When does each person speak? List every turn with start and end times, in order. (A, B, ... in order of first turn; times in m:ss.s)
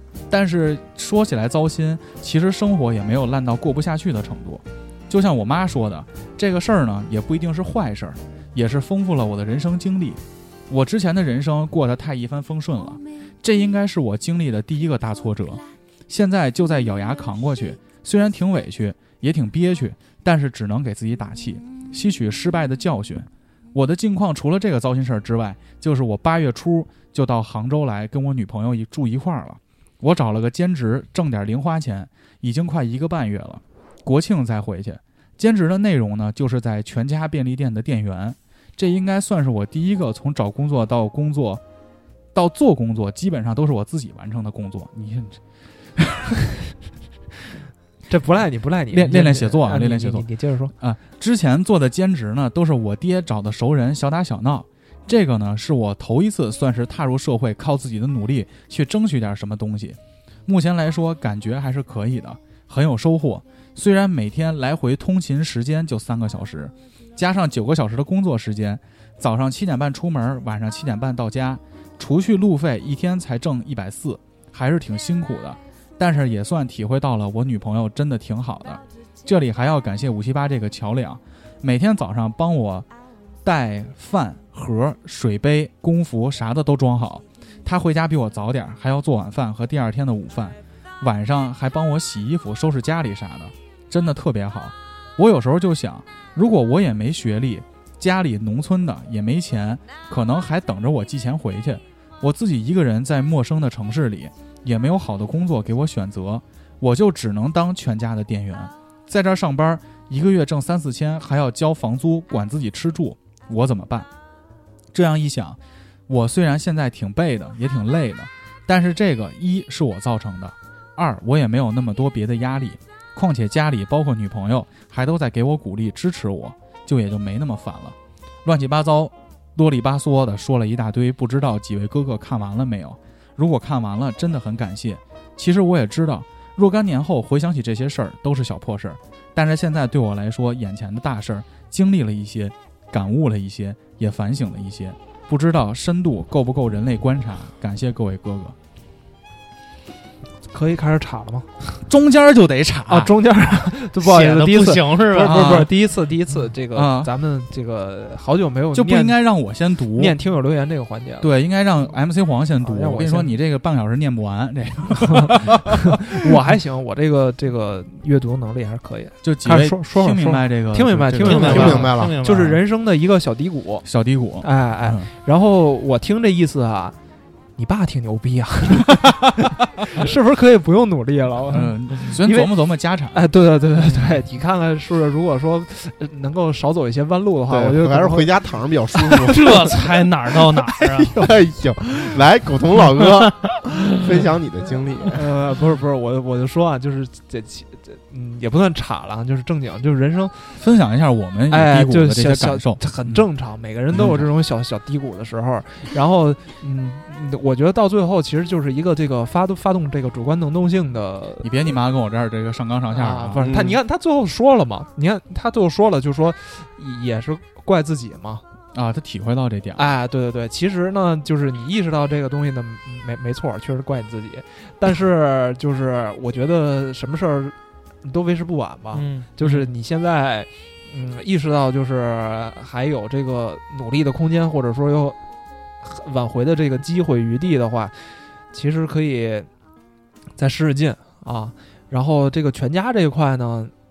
0:00.3-0:41.6 A
0:42.3-0:45.4 A
0:46.0-0:46.3 A
0:48.1-0:50.7 B
0:48.9-0:50.3 A
0:50.8-1:22.9 A
1:23.4-1:54.1 A
1:54.9-2:28.6 A
2:30.5-2:31.8 B
2:31.8-2:33.1 A
2:32.9-2:39.2 B
2:34.0-2:35.7 C
2:35.3-2:35.7 A
2:36.7-2:37.1 A
2:38.7-2:40.2 A
2:40.0-2:41.3 B
2:41.2-2:46.4 A
2:42.6-2:43.3 B
2:45.8-2:53.8 B
2:49.2-2:51.9 A
2:51.2-2:52.6 C
2:51.4-2:52.2 D
2:53.8-2:55.1 A
2:54.4-2:57.0 B
2:57.6-2:59.3 B
2:59.0-2:59.9 A
2:59.8-3:02.5 B
3:01.5-3:03.3 A
3:03.1-3:08.3 B
3:07.5-3:09.8 D
3:09.2-3:11.2 C
3:09.3-3:09.8 B
3:10.8-3:15.2 D
3:15.1-3:20.6 B
3:20.6-3:23.3 A
3:21.5-3:31.5 B
3:23.9-3:24.3 A
3:31.4-3:33.5 A
3:32.9-3:38.4 B
3:33.4-3:33.8 D
3:38.7-3:39.8 A
3:39.8-3:55.2 B
3:48.9-3:49.7 C
3:55.8-3:59.5 B
4:00.4-4:03.7 B